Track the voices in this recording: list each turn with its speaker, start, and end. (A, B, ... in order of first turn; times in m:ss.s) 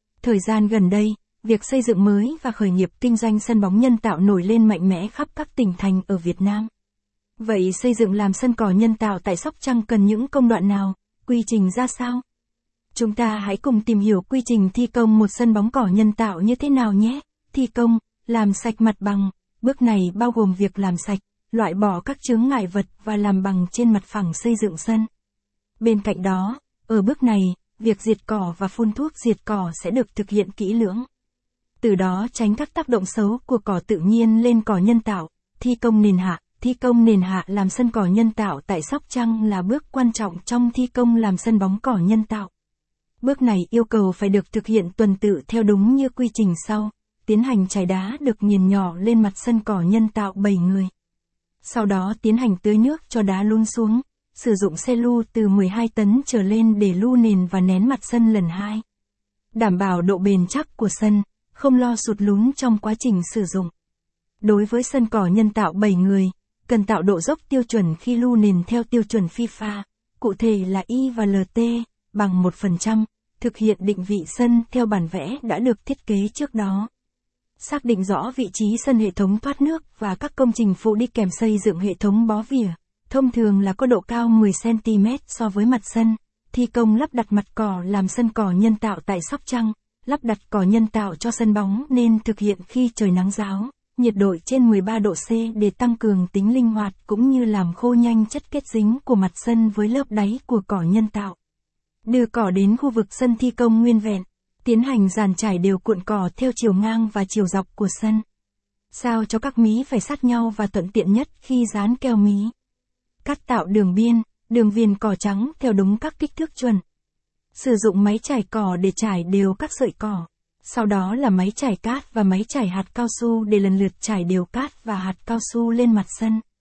0:00.2-0:06.7 A
0:07.4-0:12.2 A
0:13.0-0:25.1 A
0:25.8-0:31.1 A
0:31.8-0:42.5 A
0:43.2-0:50.9 A
0:51.6-0:58.8 A
0:59.6-1:03.7 A
1:04.4-1:16.9 A
1:17.6-1:41.4 A
1:42.1-1:48.2 A
1:48.9-1:52.5 A
1:53.2-1:56.8 A
1:57.6-2:06.4 A